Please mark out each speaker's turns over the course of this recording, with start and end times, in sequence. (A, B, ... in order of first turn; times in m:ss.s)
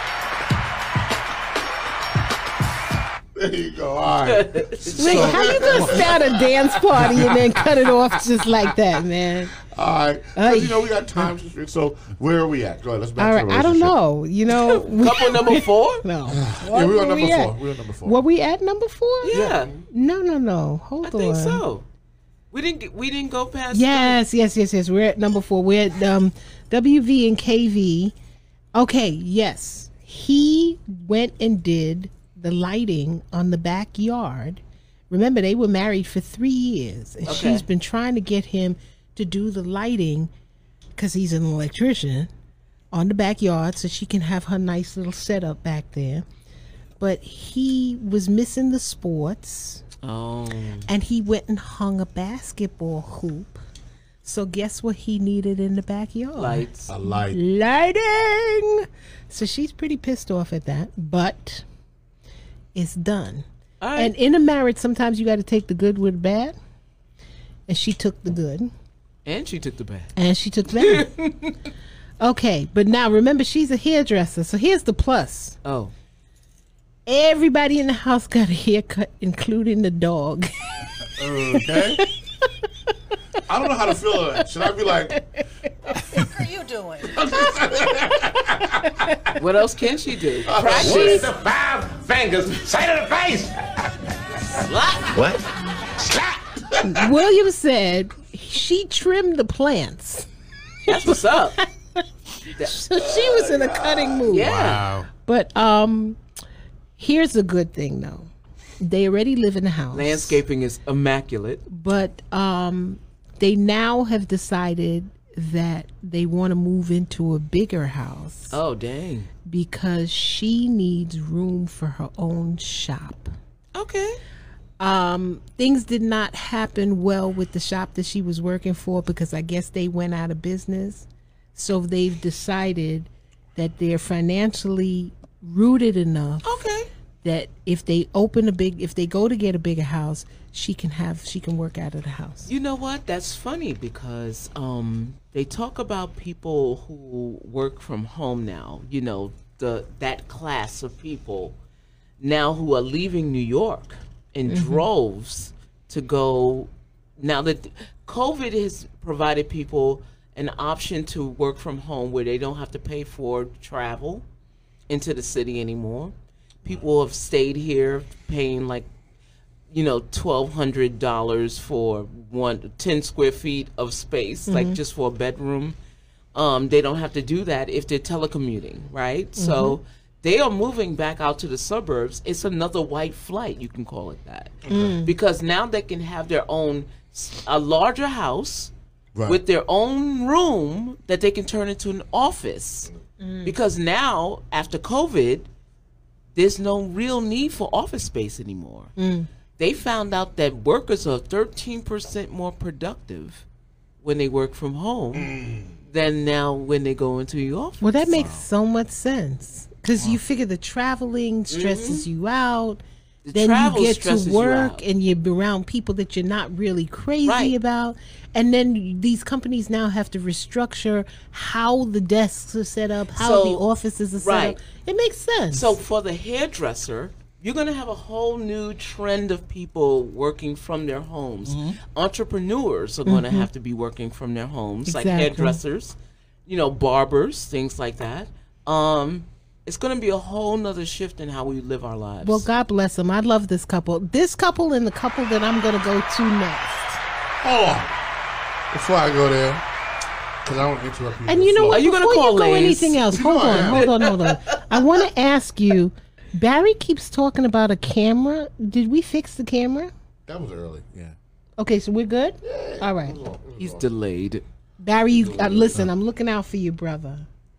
0:03.4-0:07.9 A
0:04.3-0:05.4 B
0:05.0-0:06.0 C
0:05.0-0:09.5 D
0:09.6-0:14.0 A
0:10.4-0:10.9 D
0:13.2-0:21.6 D
0:14.5-0:16.0 B
0:16.3-0:18.2 A
0:19.2-0:19.7 B
0:19.3-0:19.8 A
0:21.0-0:21.8 B
0:22.5-0:24.2 B
0:23.7-0:28.1 D
0:28.7-0:40.3 D
0:37.2-0:37.6 B
0:41.0-0:42.3 D
0:42.9-0:46.2 D
0:47.0-0:49.8 D
0:50.0-0:50.9 B
0:50.9-0:53.6 D
0:54.2-1:01.6 D
0:56.4-0:56.9 B
0:56.9-0:57.4 A
1:02.7-1:03.4 D
1:03.8-1:04.1 B
1:04.0-1:06.6 D
1:07.7-1:08.7 D
1:09.3-1:10.1 B
1:10.2-1:11.1 D
1:10.8-1:11.6 B
1:12.2-1:15.6 D
1:15.6-1:15.9 B
1:17.1-1:20.5 D
1:21.2-1:22.0 C
1:21.5-1:22.4 D
1:23.5-1:25.2 A
1:25.1-1:27.6 D
1:27.0-1:29.4 A
1:29.4-1:31.3 B
1:30.4-1:31.2 A
1:30.7-1:33.5 E
1:34.6-1:35.2 B
1:35.1-1:35.4 E
1:36.0-1:37.1 E
1:36.8-1:40.3 D
1:40.9-1:41.6 B
1:40.9-1:42.0 D
1:42.6-1:42.8 B
1:42.6-1:44.5 D
1:43.1-1:44.2 A
1:44.3-1:44.9 B
1:44.4-1:45.1 C
1:45.2-1:46.2 D
1:47.0-1:48.3 D
1:48.8-1:50.4 D
1:49.9-1:51.6 B
1:51.7-1:58.6 D
1:58.5-1:59.3 B
1:59.5-2:03.3 D
2:03.7-2:04.2 B
2:04.8-2:16.6 D
2:16.4-2:16.9 B
2:17.2-2:22.5 D
2:22.5-2:31.6 B
2:32.2-2:44.2 B
2:34.5-2:34.9 D
2:44.9-2:46.1 B
2:46.6-2:48.9 B
2:49.7-2:55.8 B
2:54.5-2:54.8 D
2:56.4-3:08.7 B
2:59.4-2:59.8 D
3:04.7-3:05.0 A
3:04.7-3:05.1 D
3:09.2-3:09.4 A
3:09.3-3:12.9 B
3:13.2-3:13.6 D
3:13.4-3:15.5 B
3:16.4-3:18.9 B
3:19.0-3:19.3 D
3:19.6-3:23.4 B
3:24.0-3:28.4 B
3:25.1-3:25.8 A
3:27.8-3:32.8 D
3:28.1-3:28.4 A
3:31.5-3:32.1 B
3:33.2-3:34.8 B
3:33.3-3:45.8 D
3:37.2-3:37.6 B
3:43.2-3:43.6 B
3:44.2-3:44.6 B
3:45.5-3:56.0 B
3:51.5-3:51.8 C
3:53.1-3:53.5 D
3:54.9-3:55.6 D
3:56.5-4:02.4 B
4:02.2-4:07.0 D
4:07.4-4:07.9 A
4:08.7-4:09.6 A
4:10.4-4:11.9 A
4:11.3-4:19.9 D
4:11.7-4:14.4 B
4:13.1-4:14.0 A
4:20.3-4:21.2 A
4:21.6-4:23.2 D
4:22.4-4:23.9 A
4:23.6-4:24.4 B
4:24.8-4:27.3 D
4:25.1-4:25.8 A